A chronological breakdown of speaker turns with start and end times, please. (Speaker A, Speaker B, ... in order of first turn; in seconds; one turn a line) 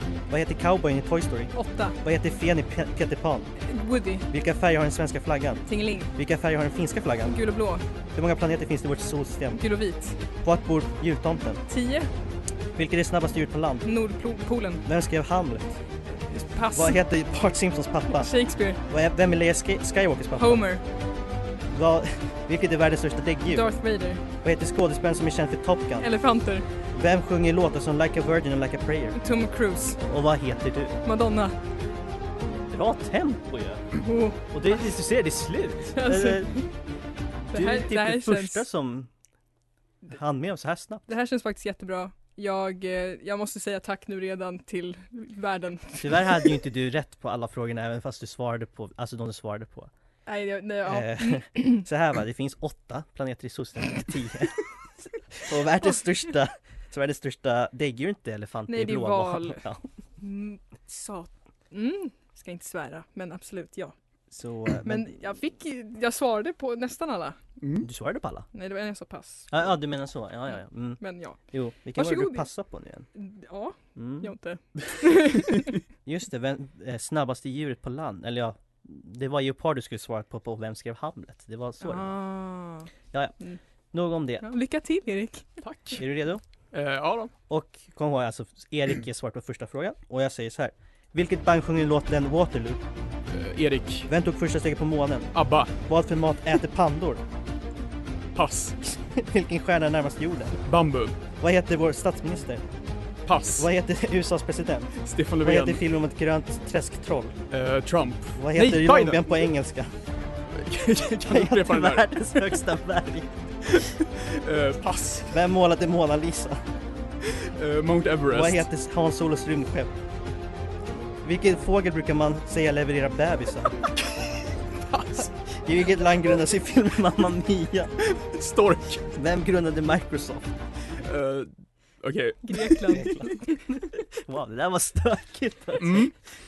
Speaker A: 0.3-3.5
Speaker B: 1.5-2.0
Speaker B: 3.6-4.3
Speaker A: 4.3-7.4
Speaker B: 5.7-6.1
Speaker B: 7.2-7.8
Speaker A: 8.1-9.6
Speaker B: 9.5-10.2
Speaker A: 10.4-11.6
Speaker B: 11.7-12.1
Speaker A: 12.8-13.9
Speaker B: 13.8-14.8
Speaker A: 14.8-15.8
Speaker B: 16.3-17.0
Speaker A: 16.7-18.3
Speaker B: 18.1-18.8
Speaker A: 18.9-20.6
Speaker B: 20.4-20.8
Speaker A: 21.7-23.7
Speaker B: 23.5-24.2
Speaker A: 24.4-26.1
Speaker B: 26.0-26.7
Speaker A: 26.9-29.2
Speaker B: 29.2-30.0
Speaker A: 30.0-31.0
Speaker B: 31.1-31.6
Speaker A: 32.7-36.6
Speaker B: 34.0-34.8
Speaker B: 35.9-36.7
Speaker A: 37.5-39.1
Speaker B: 37.5-38.6
Speaker A: 40.1-41.0
Speaker B: 41.1-46.4
Speaker A: 46.0-49.9
Speaker B: 50.3-51.8
Speaker A: 50.9-59.8
Speaker B: 58.7-59.7
Speaker B: 60.2-63.9
Speaker A: 64.3-65.3
Speaker B: 64.8-67.4
Speaker C: 67.6-67.9
Speaker A: 67.8-68.5
Speaker B: 68.5-69.7
Speaker A: 69.5-73.1
Speaker B: 71.0-71.4
Speaker B: 72.0-72.5
Speaker B: 73.1-75.7
Speaker A: 74.0-74.3
Speaker A: 76.0-82.2
Speaker B: 81.8-82.9
Speaker A: 83.9-84.5
Speaker B: 84.4-85.7
Speaker C: 85.6-86.0
Speaker A: 86.0-86.4
Speaker C: 86.7-87.3
Speaker A: 87.5-92.8
Speaker C: 93.3-94.1
Speaker A: 94.1-97.2
Speaker C: 95.3-95.7
Speaker C: 98.3-98.8
Speaker A: 98.8-100.6
Speaker C: 100.7-101.2
Speaker A: 101.4-102.7
Speaker C: 103.3-103.7
Speaker A: 103.6-107.4
Speaker C: 105.0-105.8
Speaker C: 107.5-109.3
Speaker A: 108.4-109.9
Speaker C: 110.5-112.6
Speaker A: 111.2-113.3
Speaker C: 113.7-115.3
Speaker A: 115.3-116.6
Speaker C: 117.2-118.7
Speaker A: 118.3-119.9
Speaker A: 121.2-123.8
Speaker C: 124.0-125.3
Speaker A: 125.5-127.9
Speaker C: 128.0-129.1
Speaker A: 129.1-130.5
Speaker C: 131.0-133.1
Speaker B: 132.4-133.6
Speaker A: 132.9-136.1
Speaker C: 135.8-136.1